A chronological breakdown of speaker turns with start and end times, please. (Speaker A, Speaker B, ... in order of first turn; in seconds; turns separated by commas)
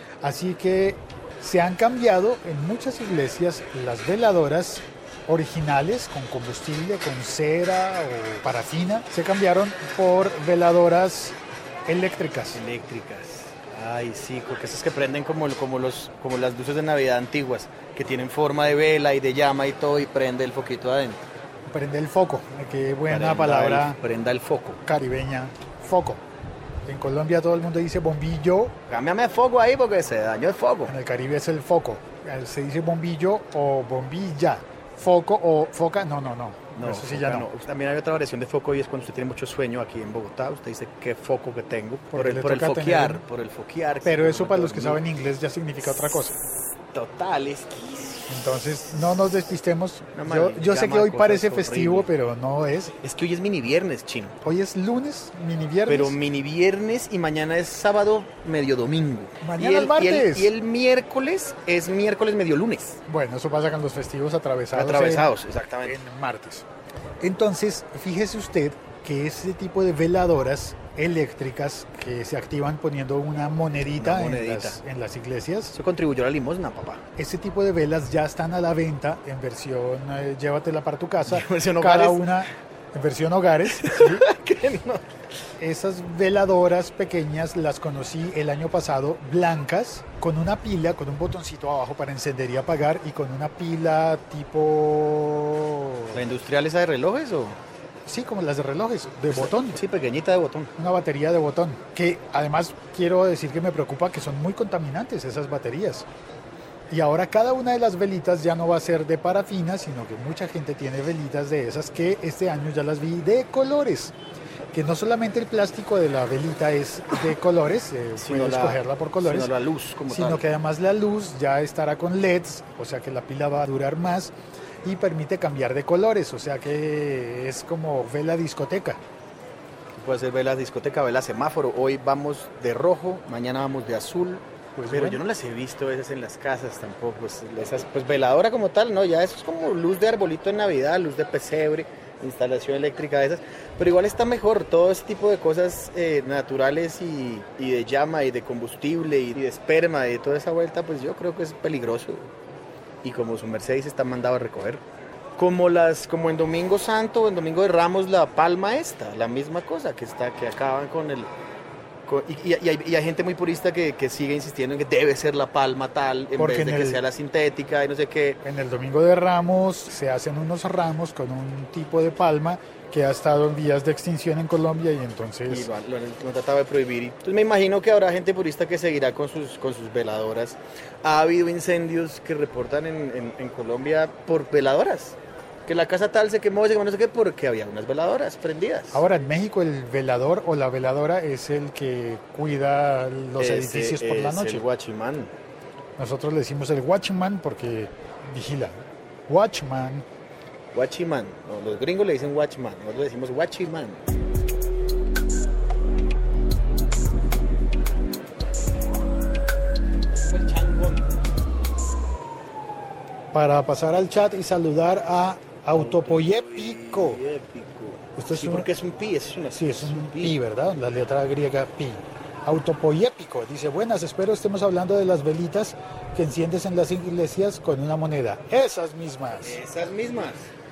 Speaker A: 0.2-12.6, Speaker B: 12.5-21.2, Speaker A: 21.7-24.0, Speaker B: 23.1-24.8, Speaker A: 24.9-26.2, Speaker A: 26.9-28.8, Speaker B: 28.9-30.9, Speaker A: 30.9-37.5, Speaker B: 36.7-45.0, Speaker A: 42.1-43.2, Speaker A: 44.0-46.4, Speaker B: 46.9-48.8, Speaker A: 48.3-53.0, Speaker B: 50.1-52.1, Speaker B: 53.0-54.4, Speaker A: 54.4-56.1, Speaker B: 55.9-63.0, Speaker A: 59.4-60.5, Speaker A: 63.1-66.7, Speaker B: 64.7-66.0, Speaker A: 67.2-75.7, Speaker B: 74.0-74.8, Speaker B: 75.7-77.0, Speaker A: 77.2-84.3, Speaker B: 81.3-82.3, Speaker B: 83.7-85.0, Speaker A: 85.6-96.2, Speaker B: 96.1-97.6, Speaker A: 98.1-99.8, Speaker B: 99.3-100.7, Speaker A: 100.8-106.1, Speaker A: 106.9-114.2, Speaker A: 114.7-119.5, Speaker B: 118.2-120.5, Speaker A: 120.1-129.0, Speaker B: 130.0-152.3, Speaker A: 134.8-135.2, Speaker B: 153.0-154.8, Speaker B: 155.4-161.3, Speaker B: 162.1-168.4, Speaker A: 166.4-167.0, Speaker A: 168.4-175.7, Speaker B: 175.5-189.0, Speaker A: 188.9-194.6, Speaker B: 193.4-195.3, Speaker A: 196.0-200.1, Speaker B: 200.7-204.0, Speaker B: 210.3-211.1, Speaker A: 213.3-217.2, Speaker B: 215.7-220.4, Speaker A: 218.2-218.7, Speaker A: 219.5-229.6, Speaker B: 229.4-230.5